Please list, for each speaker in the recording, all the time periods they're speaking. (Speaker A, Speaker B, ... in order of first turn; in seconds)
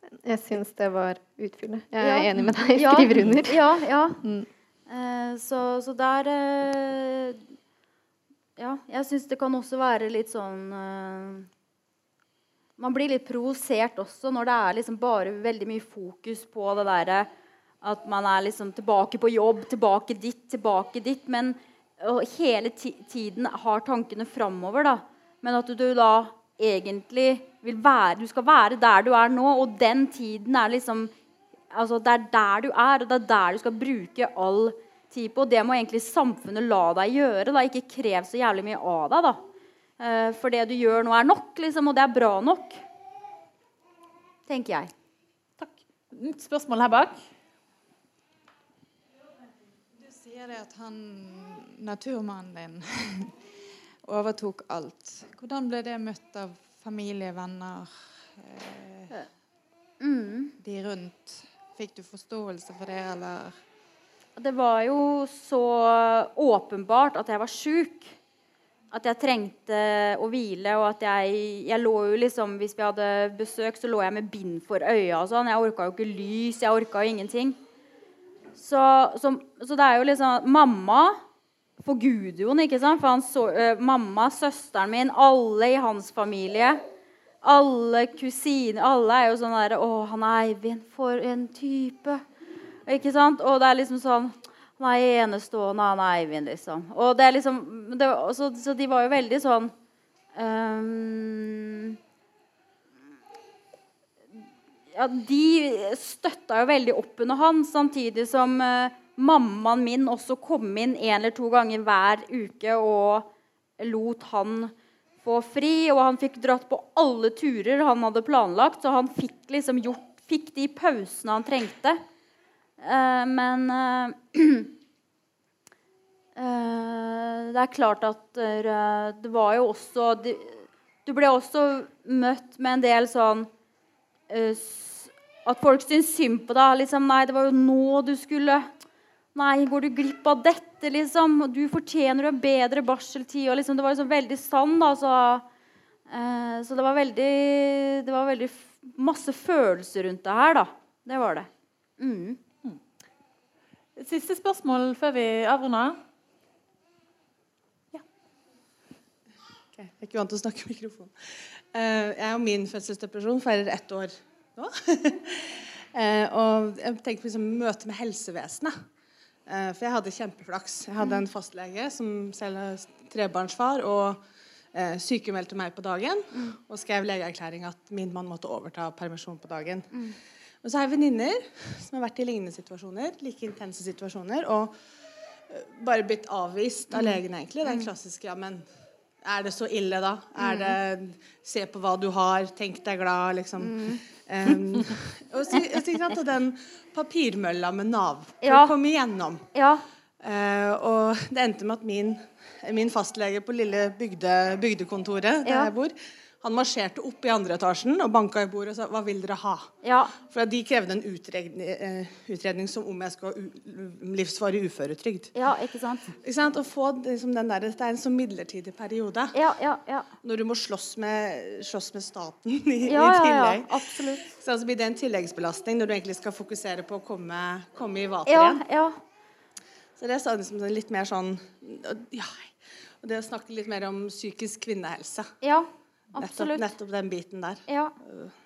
Speaker A: 0.2-3.6
Speaker B: 2.0-4.2, 4.9-7.4, 8.6-11.5, 12.8-17.3, 17.8-31.1, 31.7-39.4, 40.0-42.8, 44.5-44.9, 60.0-60.5, 64.4-68.2, 68.9-77.6, 78.5-81.2, 81.8-86.8, 87.4-92.2, 92.9-99.7, 100.3-102.0, 104.9-122.0, 122.8-124.7, 126.4-133.5, 134.3-138.7, 139.3-145.4, 146.1-152.4, 186.9-187.9, 190.4-190.8, 193.6-194.0, 198.4-198.8, 199.5-199.8, 205.4-205.7, 209.8-210.2, 215.3-216.1, 219.3-220.1, 222.9-224.3, 228.3-229.0, 235.4-236.7, 237.7-237.9
Speaker C: 45.6-47.2, 154.0-156.0
Speaker D: 50.0-53.4, 54.0-59.1, 60.6-63.5
Speaker E: 159.7-161.1, 161.7-168.8, 169.5-174.2, 174.7-179.9, 180.6-184.7, 185.5-188.7, 189.2-199.5, 200.2-209.7, 210.2-215.3, 216.2-219.4, 220.2-228.6, 230.0-235.3, 236.2-238.3